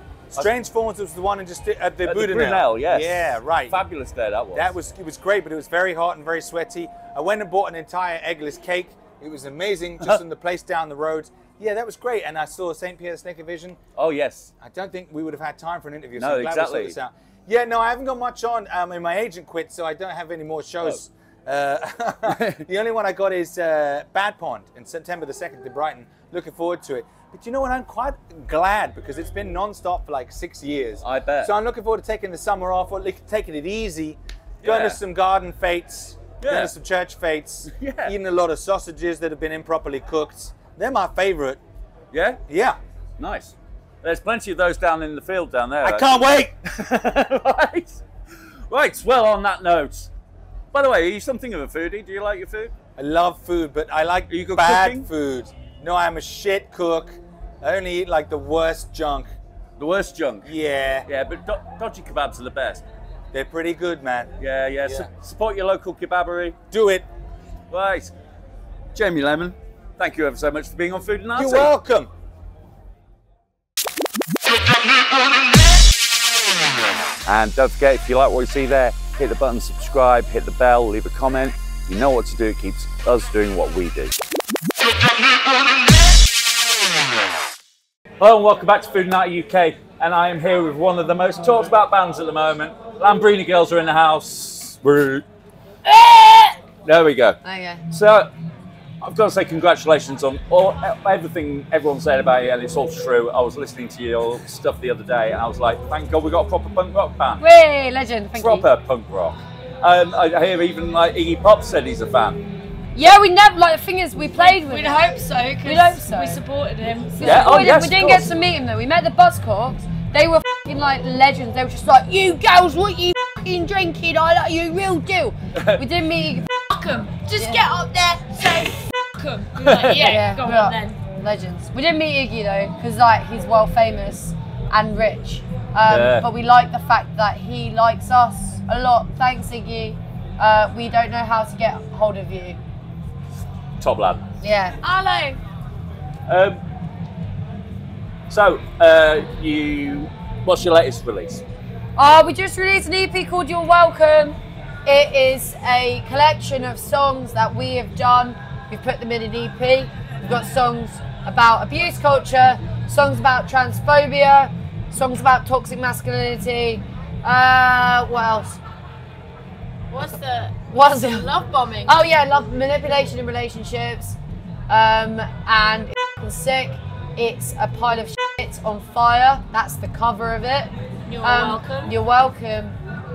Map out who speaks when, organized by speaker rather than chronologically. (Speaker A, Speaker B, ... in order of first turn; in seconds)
Speaker A: 0.3-3.8, 4.5-13.8, 14.6-41.6, 42.5-42.8, 45.8-46.5, 53.0-59.3, 60.4-61.1, 63.3-64.3, 66.7-67.1, 71.3-72.1
Speaker B: 2.0-4.7, 14.0-14.5, 16.2-17.0, 22.3-22.6, 31.0-31.5, 34.6-35.0, 36.4-36.7, 37.7-38.1, 42.1-42.4, 43.2-48.0, 48.7-50.1, 50.7-52.7, 54.3-55.1, 59.8-60.5, 61.0-62.8, 64.4-66.6, 67.7-68.1, 68.9-71.7, 77.2-84.1, 88.2-95.2, 96.8-97.4, 97.9-98.3, 99.0-107.4, 108.4-112.5, 117.2-118.3, 125.5-125.8, 129.6-130.1, 135.9-136.2, 143.8-144.2, 146.3-146.6, 148.3-151.4
Speaker C: 95.8-96.5, 114.4-117.5, 126.7-131.0, 144.8-145.4, 169.9-172.0, 181.1-181.9
Speaker D: 97.4-97.8, 107.4-108.7, 112.9-115.1, 115.6-116.4, 117.2-126.5, 127.3-127.6, 129.9-142.6, 144.4-144.8, 151.9-168.6, 170.7-171.3, 171.8-174.2, 174.7-182.8